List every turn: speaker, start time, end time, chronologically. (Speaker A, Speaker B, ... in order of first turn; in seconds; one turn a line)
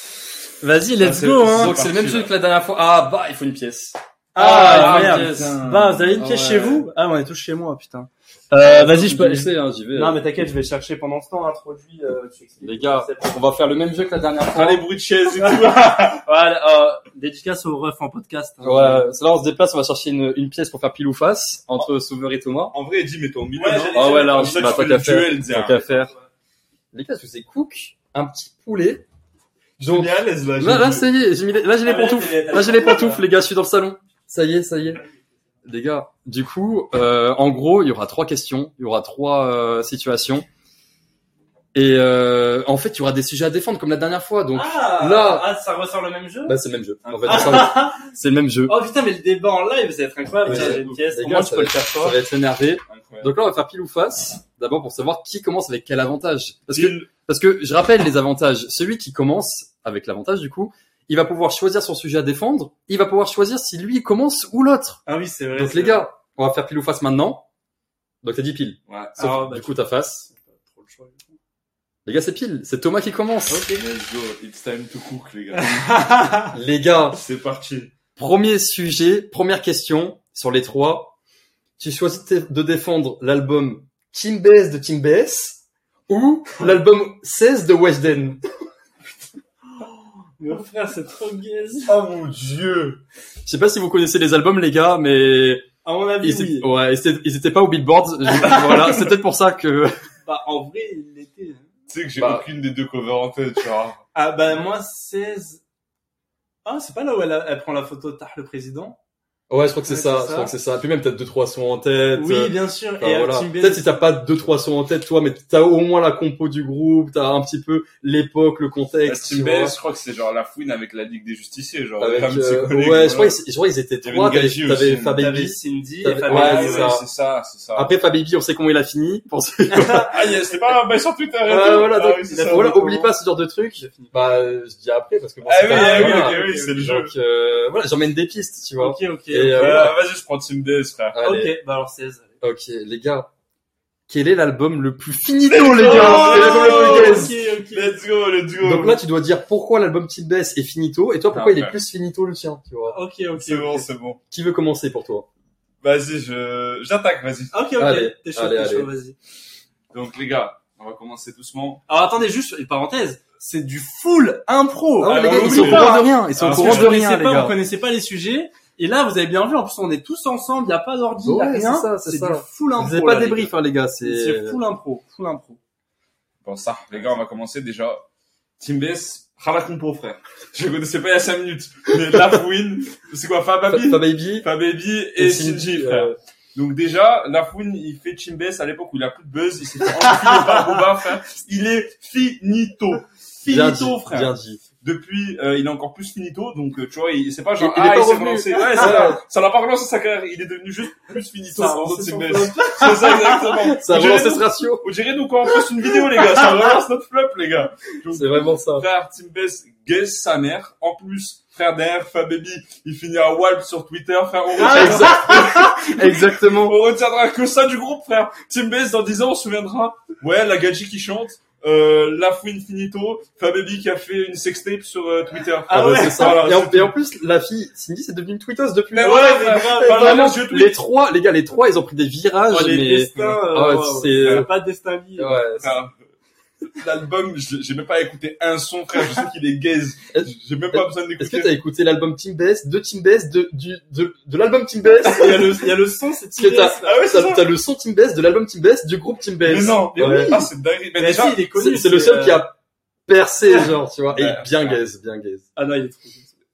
Speaker A: 0.6-1.8
Speaker B: 1.0-2.3
Speaker C: 1.5-5.6
Speaker A: 4.3-13.4
Speaker B: 4.4-6.1
Speaker C: 6.2-6.8
Speaker C: 8.6-10.2
Speaker C: 12.6-14.8
Speaker B: 14.5-16.2
Speaker A: 15.4-19.1
Speaker C: 18.6-22.8
Speaker B: 22.7-25.8
Speaker A: 23.6-24.9
Speaker C: 23.9-26.1
Speaker C: 26.9-29.0
Speaker C: 29.8-35.0
Speaker B: 29.9-31.1
Speaker A: 31.8-33.2
Speaker C: 35.6-40.5
Speaker C: 41.7-45.5
Speaker A: 44.5-46.6
Speaker C: 46.5-48.8
Speaker B: 47.0-47.7
Speaker A: 47.2-48.1
Speaker A: 48.7-52.2
Speaker C: 50.4-65.0
Speaker B: 50.5-50.9
Speaker B: 52.9-53.3
Speaker B: 56.7-57.1
Speaker A: 65.0-66.1
Speaker C: 65.5-67.4
Speaker C: 68.2-70.3
Speaker B: 68.9-69.3
Speaker A: 69.2-71.4
Speaker C: 72.0-73.7
Speaker A: 73.5-73.8
Speaker B: 73.8-76.3
Speaker A: 75.9-76.5
Speaker C: 76.5-77.2
Speaker B: 77.1-77.9
Speaker C: 78.2-81.2
Speaker C: 81.8-88.4
Speaker A: 90.4-92.0
Speaker B: 91.9-93.0
Speaker C: 93.4-95.7
Speaker A: 95.8-96.7
Speaker C: 96.2-100.0
Speaker B: 98.5-98.9
Speaker A: 100.2-101.7
Speaker B: 101.9-104.0
Speaker C: 102.2-102.5
Speaker A: 104.1-105.6
Speaker A: 106.6-109.0
Speaker C: 109.5-119.7
Speaker A: 109.8-110.5
Speaker A: 112.1-114.0
Speaker B: 119.0-123.4
Speaker C: 122.0-127.0
Speaker B: 124.0-125.2
Speaker A: 125.2-127.0
Speaker B: 126.2-127.9
Speaker C: 127.7-130.1
Speaker A: 129.7-130.1
Speaker B: 130.1-132.7
Speaker C: 131.4-140.0
Speaker A: 132.2-133.1
Speaker A: 133.8-134.1
Speaker B: 135.4-137.1
Speaker A: 135.7-136.6
Speaker A: 138.8-139.9
Speaker B: 139.5-141.2
Speaker C: 141.1-141.6
Speaker A: 141.2-142.3
Speaker C: 142.4-143.3
Speaker C: 144.1-147.3
Speaker B: 145.4-149.0
Speaker A: 145.8-148.0
Speaker C: 148.6-153.0
Speaker B: 151.3-151.8
Speaker A: 152.9-153.9
Speaker B: 153.3-154.2
Speaker C: 154.3-155.3
Speaker B: 155.8-157.5
Speaker A: 157.5-159.2
Speaker C: 157.8-158.9
Speaker B: 159.9-161.8
Speaker A: 161.9-175.6
Speaker C: 165.0-167.5
Speaker B: 165.1-167.0
Speaker C: 171.2-174.6
Speaker B: 176.4-178.1
Speaker B: 178.6-226.9
Speaker C: 183.7-184.5
Speaker C: 185.2-186.1
Speaker A: 190.2-190.8
Speaker C: 193.4-194.6
Speaker C: 197.6-199.2
Speaker A: 198.8-199.1
Speaker A: 201.5-203.6
Speaker C: 203.6-204.8
Speaker C: 208.1-208.9
Speaker A: 214.6-215.7
Speaker C: 214.6-216.8
Speaker A: 225.7-226.4
Speaker C: 225.7-234.5
Speaker B: 228.9-230.8
Speaker A: 228.9-230.4
Speaker A: 232.5-235.6
Speaker B: 234.2-234.5
Speaker C: 235.2-235.7
Speaker B: 235.6-235.9
Speaker B: 236.7-241.6
Speaker C: 240.1-245.7
Speaker A: 244.9-247.1
Speaker C: 246.3-250.4
Speaker B: 246.8-247.5
Speaker B: 249.4-251.4
Speaker A: 249.5-252.5
Speaker C: 251.6-252.5
Speaker C: 253.1-255.4
Speaker B: 254.1-254.8
Speaker A: 255.6-256.3